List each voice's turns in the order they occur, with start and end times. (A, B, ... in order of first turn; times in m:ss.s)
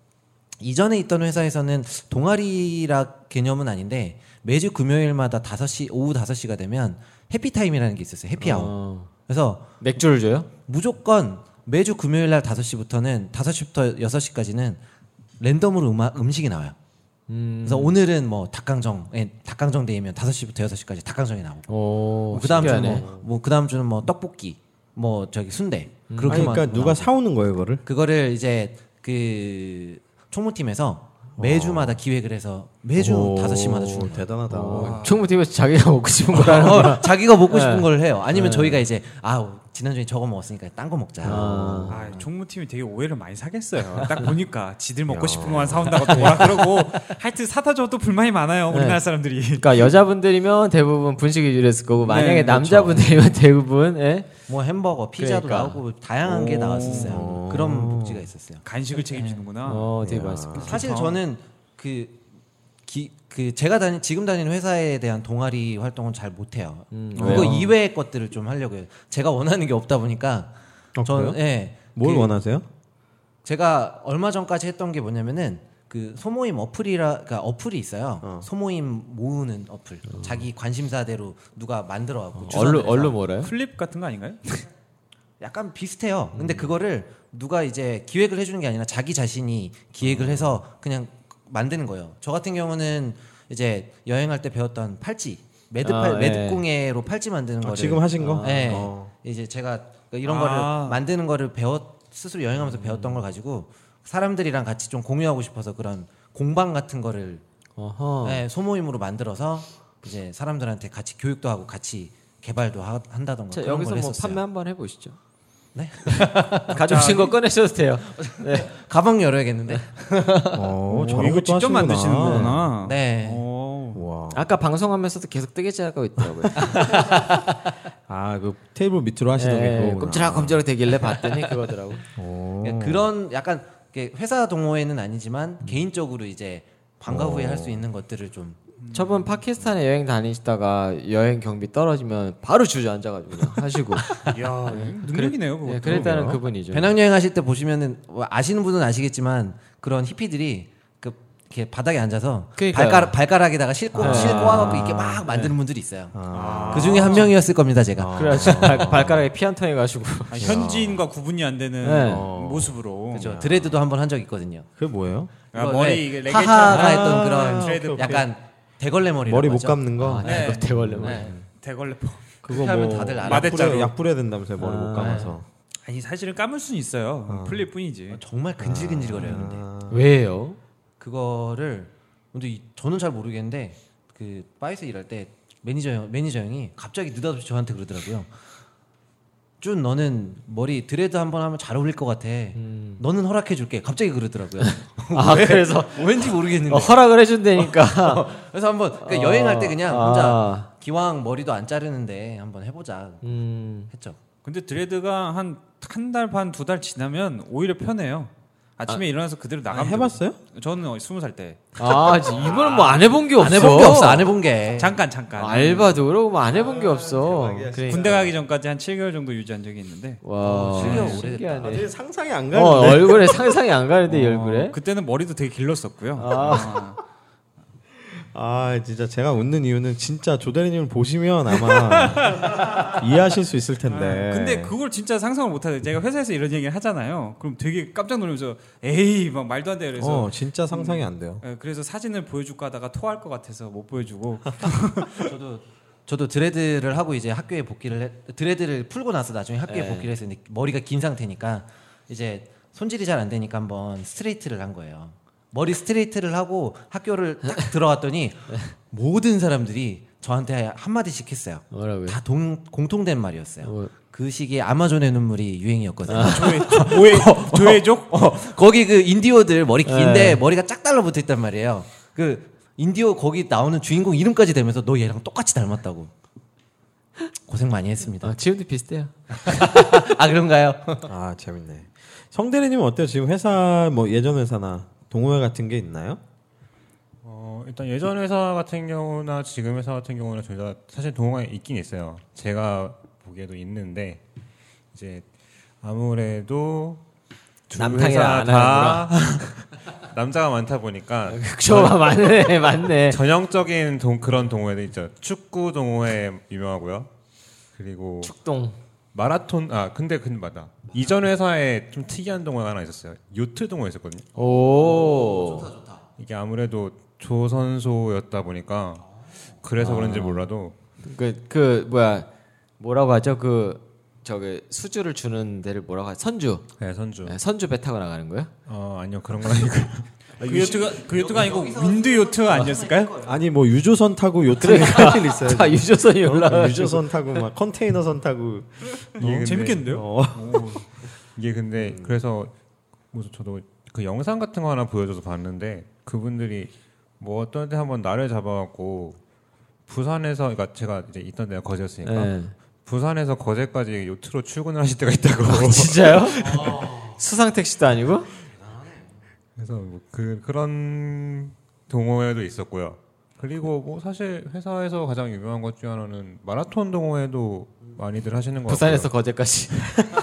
0:00.6-0:08.7 A
0:08.4-0:09.1 B
0:09.3-0:09.7 A
0:09.8-0:10.5 B
0:10.6-0:14.8 A
0:15.4-0:16.8 A
0:17.3-0:17.9 B
0:17.6-0:21.7 A
0:21.7-0:23.1 B
0:22.3-0:27.1 A
0:22.4-0:23.3 C
0:26.1-0:26.6 B
0:26.2-0:27.8 C
0:27.8-0:34.3 A
0:31.4-0:32.0 C
0:32.9-0:35.1 C
0:34.5-0:38.8 B
0:34.7-0:35.2 D
0:36.3-0:42.2 A
0:41.2-0:42.1 C
0:41.2-0:42.0 B
0:41.9-0:49.9 D
0:45.1-0:46.1 C
0:46.1-0:46.8 B
0:48.7-0:49.0 B
0:49.6-0:54.3 B
0:52.0-0:53.2 D
0:54.5-0:59.4 A
0:55.2-0:55.8 B
0:56.2-0:57.3 D
0:56.9-0:58.3 C
0:58.6-0:59.9 D
0:59.6-1:00.7 B
1:00.0-1:00.8 C
1:00.5-1:01.2 D
1:00.6-1:02.2 A
1:02.8-1:12.4 A
1:06.9-1:07.6 B
1:07.2-1:07.6 D
1:07.2-1:07.7 C
1:10.9-1:12.6 C
1:13.4-1:23.2 A
1:18.2-1:18.5 C
1:22.3-1:23.5 B
1:23.2-1:24.4 D
1:25.4-1:47.4 A
1:26.4-1:26.7 B
1:30.0-1:30.6 C
1:35.8-1:36.6 B
1:37.6-1:39.1 C
1:38.2-1:38.8 B
1:40.2-1:41.0 D
1:47.8-1:48.4 B
1:48.2-1:54.4 A
1:53.5-1:55.2 B
1:55.7-1:56.8 A
1:56.2-1:58.7 B
1:56.7-1:57.4 D
1:58.2-2:00.7 A
2:00.5-2:02.7 C
2:00.9-2:04.0 D
2:02.8-2:03.4 A
2:03.9-2:04.5 C
2:04.3-2:07.2 B
2:06.2-2:06.9 C
2:06.6-2:07.4 A
2:08.1-2:10.6 C
2:09.4-2:12.0 B
2:12.2-2:13.1 C
2:12.6-2:18.6 A
2:17.1-2:17.9 C
2:18.8-2:19.3 D
2:18.9-2:24.1 B
2:24.0-2:24.3 A
2:24.2-2:26.1 D
2:24.7-2:26.9 B
2:25.8-2:26.4 C
2:26.7-2:36.2 A
2:32.6-2:33.1 B
2:33.9-2:35.3 C
2:34.0-2:34.9 B
2:35.3-2:35.5 D
2:36.1-2:37.3 C
2:36.3-2:37.3 D
2:36.7-2:38.9 A
2:37.9-2:39.3 C
2:38.1-2:40.6 B
2:40.3-2:43.4 D
2:40.4-2:41.0 C
2:41.8-2:42.3 B
2:42.0-2:43.8 C
2:43.1-2:44.7 A
2:44.8-2:45.3 C
2:45.5-2:48.2 D
2:45.5-2:51.3 A
2:46.6-2:48.3 C
2:49.2-2:51.4 C
2:50.0-2:51.3 B
2:50.2-2:50.6 D
2:51.6-2:52.3 D
2:52.4-2:55.5 C
2:52.4-2:53.9 A
2:53.2-2:53.9 D
2:54.6-2:55.4 B
2:55.0-2:55.3 A
2:55.8-2:58.2 D
2:57.3-2:57.7 C
2:58.1-2:59.6 A
2:58.6-3:00.0 C
2:59.9-3:00.6 B
3:01.0-3:08.3 A
3:09.6-3:17.0 A
3:12.5-3:13.0 B
3:14.6-3:18.3 B
3:17.6-3:23.3 A
3:19.0-3:20.7 B
3:23.2-3:23.9 B
3:23.9-3:24.2 A
3:24.4-3:32.9 D
3:29.7-3:30.4 C
3:31.8-3:34.3 B
3:33.4-3:35.0 A
3:33.6-3:34.0 D
3:34.8-3:36.0 D
3:35.4-3:38.2 B
3:36.4-3:38.3 C
3:37.9-3:40.2 D
3:40.2-3:41.9 B
3:40.4-3:41.8 A
3:40.7-3:41.2 D
3:41.6-3:43.6 C
3:42.5-3:44.8 B
3:44.1-3:47.0 D
3:46.2-3:46.8 B
3:48.0-3:54.7 C
3:51.7-3:53.0 D
3:53.8-4:05.3 D
4:00.0-4:01.4 C
4:05.2-4:36.1 A
4:09.7-4:10.1 B
4:21.7-4:22.2 B
4:23.6-4:23.9 B
4:26.1-4:26.6 B
4:26.1-4:28.1 D
4:29.8-4:30.4 B
4:37.4-4:38.3 A
4:38.2-4:39.7 B
4:39.4-4:41.1 A
4:41.0-4:46.2 C
4:47.2-4:54.2 E
4:54.9-4:55.3 E
4:55.8-4:57.0 E
4:57.7-5:07.1 E
4:57.7-4:59.1 B
5:01.3-5:03.2 B
5:07.8-5:08.3 E
5:08.2-5:08.8 B
5:09.1-5:14.3 E
5:14.3-5:15.7 B
5:14.4-5:16.0 A
5:16.2-5:19.0 E
5:19.6-5:20.7 E
5:19.8-5:20.5 B
5:21.0-5:22.3 B
5:22.8-5:26.6 B
5:26.8-5:27.4 E
5:27.2-5:28.5 B
5:28.7-5:31.0 E
5:30.4-5:33.1 D
5:30.4-5:33.4 A
5:33.2-5:40.8 C
5:34.6-5:37.4 B
5:39.2-5:39.9 E
5:39.2-5:40.8 D
5:41.4-5:42.5 E
5:41.8-5:42.2 C
5:43.1-5:49.2 E
5:49.9-5:56.9 E
5:52.0-5:52.5 B
5:55.4-5:58.3 B
5:56.6-5:57.2 A
5:58.6-5:59.0 A
5:59.6-6:09.1 E
6:08.7-6:10.0 B